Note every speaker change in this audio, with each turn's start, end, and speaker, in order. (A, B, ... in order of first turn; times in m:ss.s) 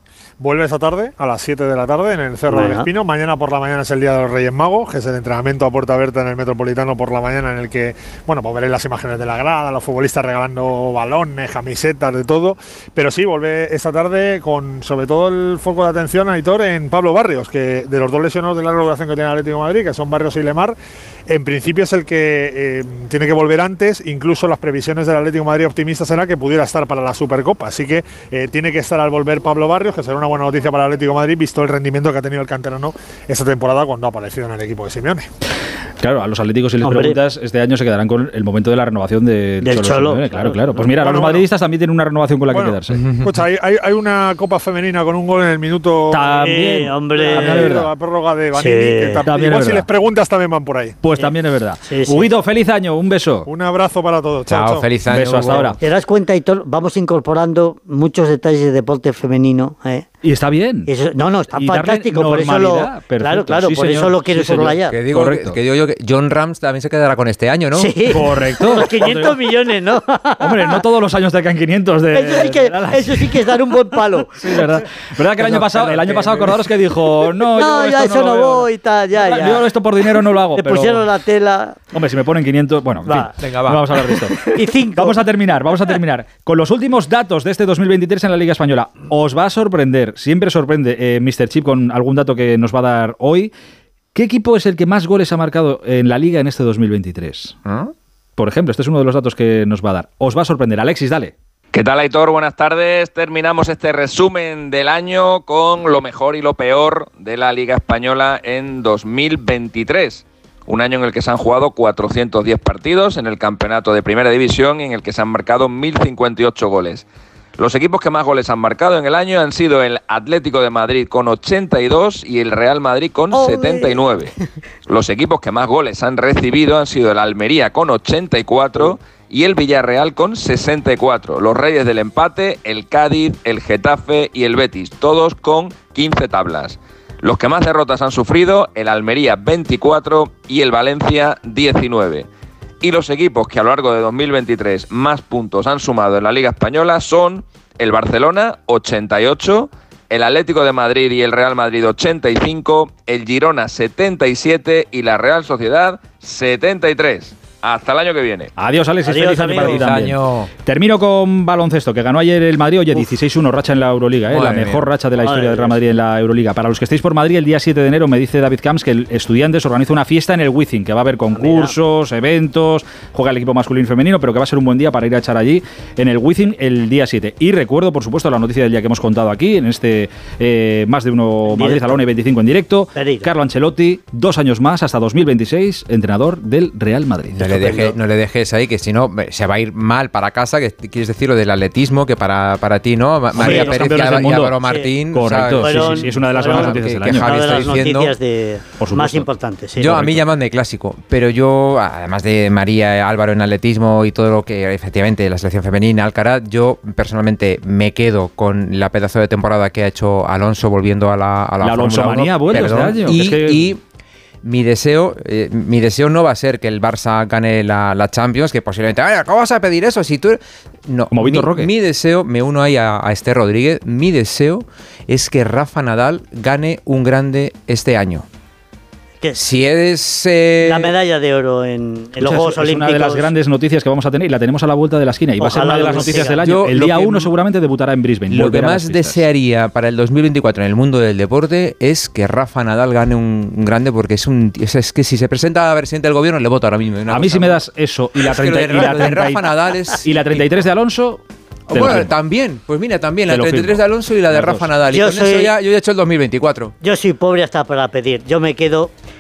0:00.4-0:20.8 A
0:02.5-0:02.9 B
0:21.3-0:35.3 A
0:36.0-0:43.0 C
0:36.8-0:37.2 B
0:39.6-0:40.8 B
0:40.9-0:41.5 A
0:42.5-0:51.0 A
0:46.1-0:47.9 C
0:46.4-0:47.7 B
0:48.6-0:49.2 B
0:49.2-0:49.8 C
0:51.0-0:53.5 C
0:51.8-0:52.3 B
0:53.4-0:54.9 A
0:54.5-0:55.7 D
0:55.1-0:55.8 C
0:55.8-1:00.0 B
1:00.2-1:00.9 C
1:00.9-1:05.0 B
1:01.5-1:05.6 C
1:04.9-1:08.2 D
1:07.7-1:10.7 B
1:08.1-1:09.5 C
1:10.4-1:13.6 C
1:12.1-1:14.6 B
1:14.4-1:21.1 C
1:15.5-1:16.4 D
1:17.6-1:19.8 B
1:20.5-1:21.8 B
1:21.9-1:33.5 C
1:23.0-1:23.3 B
1:23.4-1:24.0 D
1:24.2-1:25.2 B
1:34.1-1:37.6 C
1:37.6-1:37.9 D
1:38.4-1:41.3 C
1:41.7-1:57.0 E
1:57.6-2:04.3 E
2:03.3-2:04.1 B
2:04.9-2:22.3 E
2:22.8-2:38.5 E
2:38.6-3:07.4 C
2:39.0-2:39.7 B
2:39.6-2:40.5 D
2:44.3-2:44.8 D
2:45.2-2:45.7 B
2:51.4-2:51.7 B
3:01.5-3:02.0 B
3:03.0-3:03.3 B
3:07.3-3:18.2 D
3:07.4-3:07.9 B
3:13.4-3:14.6 C
3:13.4-3:14.0 B
3:14.6-3:14.9 B
3:15.1-3:17.4 C
3:15.6-3:19.9 B
3:18.8-3:19.3 C
3:19.8-3:33.8 D
3:19.9-3:20.2 C
3:31.6-3:33.7 C
3:34.4-3:48.2 D
3:41.1-3:41.7 C
3:49.3-3:51.0 D
3:50.6-3:53.3 B
3:52.2-3:59.2 C
3:55.4-3:56.4 B
3:55.8-3:57.3 D
3:58.3-4:07.6 D
4:07.1-4:09.5 C
4:08.2-4:10.6 D
4:08.8-4:09.1 B
4:10.0-4:12.1 C
4:11.7-4:16.7 D
4:13.3-4:14.7 C
4:14.9-4:15.5 B
4:16.8-4:18.9 B